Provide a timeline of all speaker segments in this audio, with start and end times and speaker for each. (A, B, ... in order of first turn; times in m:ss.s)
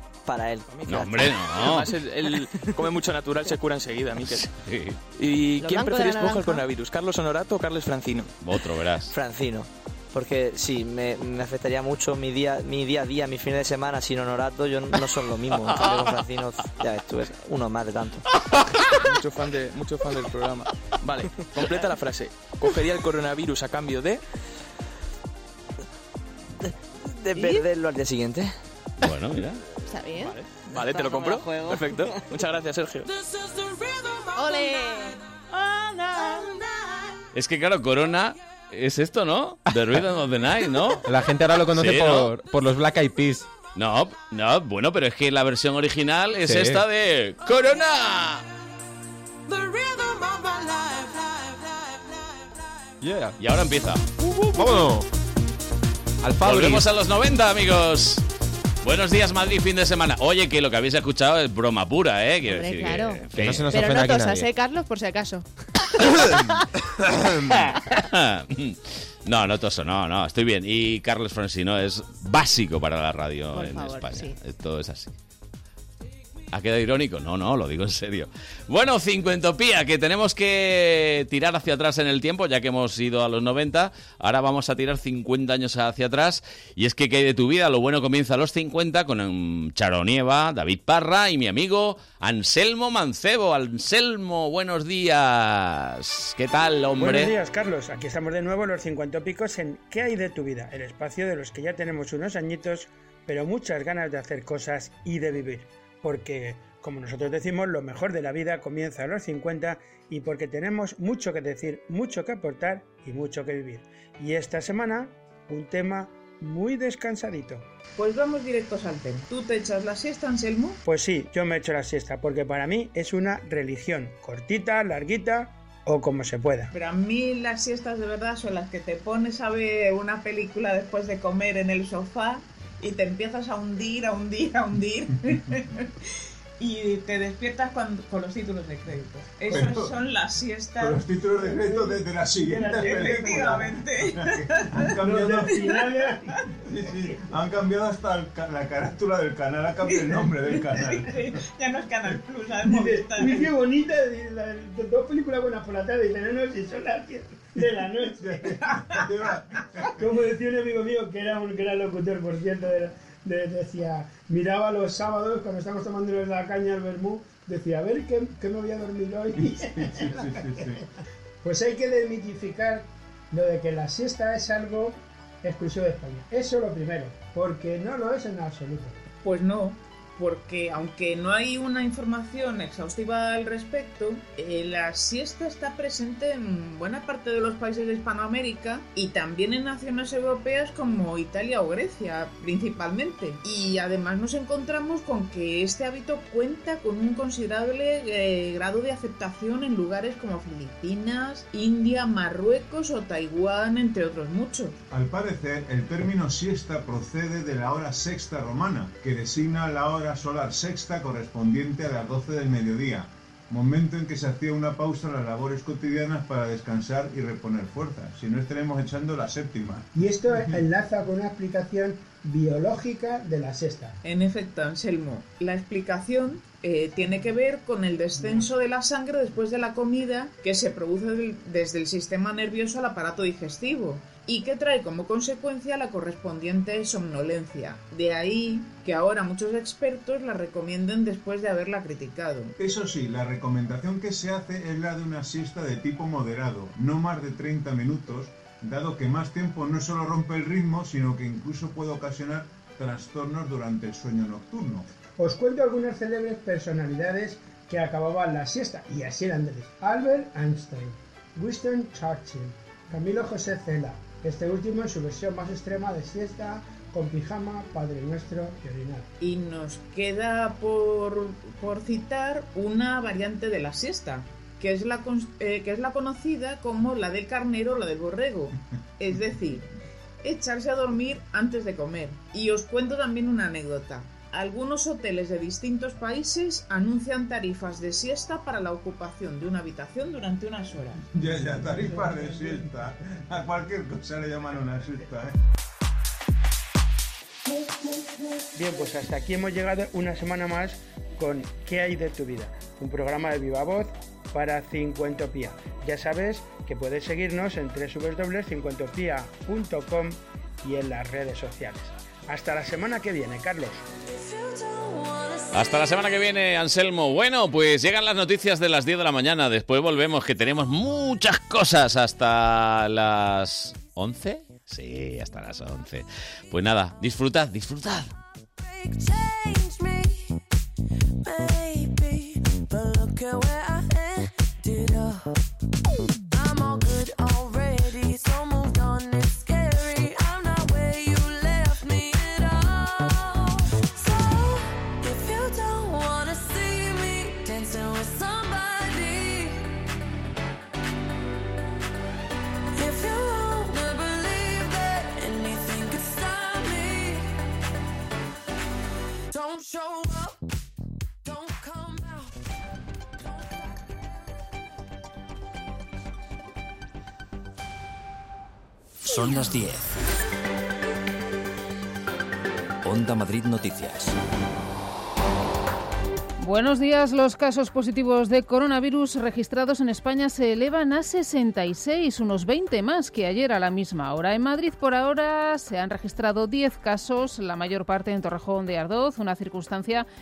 0:00.2-0:01.3 A
0:00.7-0:04.4 B
0:00.8-0:01.9 C
0:04.2-0:05.0 C
0:05.2-0:08.3 B
0:05.6-0:06.6 D
0:08.4-0:09.1 C
0:09.1-0:18.2 A
0:19.0-0:24.2 B
0:27.3-0:28.5 A
0:27.3-0:27.7 D
0:29.0-0:29.6 C
0:29.9-0:30.4 D
0:30.2-0:33.1 B
0:31.0-0:32.0 D
0:33.0-0:34.8 E
0:34.4-0:36.4 D
0:37.3-0:41.1 C
0:41.0-0:43.5 F
0:41.7-0:42.3 C
0:43.7-0:48.4 C
0:46.4-0:46.8 F
0:49.5-0:51.8 E
0:53.0-0:53.4 F
0:53.4-0:54.9 C
0:54.5-0:55.0 F
0:56.2-0:56.8 F
0:56.4-0:58.2 C
0:58.8-1:03.8 C
1:02.5-1:03.2 D
1:03.3-1:04.5 F
1:03.7-1:05.4 D
1:07.5-1:15.1 C
1:13.5-1:14.3 D
1:16.5-1:37.3 C
1:37.0-1:57.7 G
1:58.0-2:00.8 H
2:00.8-2:06.7 G
2:06.7-2:15.7 H
2:16.6-2:21.0 H
2:19.5-2:19.9 I
2:20.8-2:25.7 I
2:21.4-2:23.6 G
2:22.6-2:24.9 H
2:25.0-2:26.3 G
2:26.6-2:31.4 I
2:29.8-2:33.5 H
2:32.6-2:38.6 G
2:38.1-2:40.2 I
2:40.0-2:50.8 G
2:49.4-2:50.8 I
2:51.4-2:59.0 G
2:59.2-3:24.8 H
3:24.9-3:40.6 I
3:39.9-3:44.0 G
3:44.0-4:02.5 H
3:48.2-3:48.4 I
4:02.6-4:14.9 I
4:15.2-4:29.1 G
4:29.2-4:39.6 H
4:40.2-4:51.0 H
4:51.0-4:55.4 I
4:58.5-5:13.8 G
5:14.1-5:16.1 E
5:15.5-5:28.1 C
5:28.6-5:30.3 E
5:31.2-5:35.4 E
5:36.3-5:49.7 E
5:52.7-5:57.3 E
5:59.3-6:00.4 E
6:01.2-6:02.4 E
6:03.2-6:04.5 E
6:09.0-6:09.9 J
6:12.8-6:14.2 J
6:16.4-6:30.0 K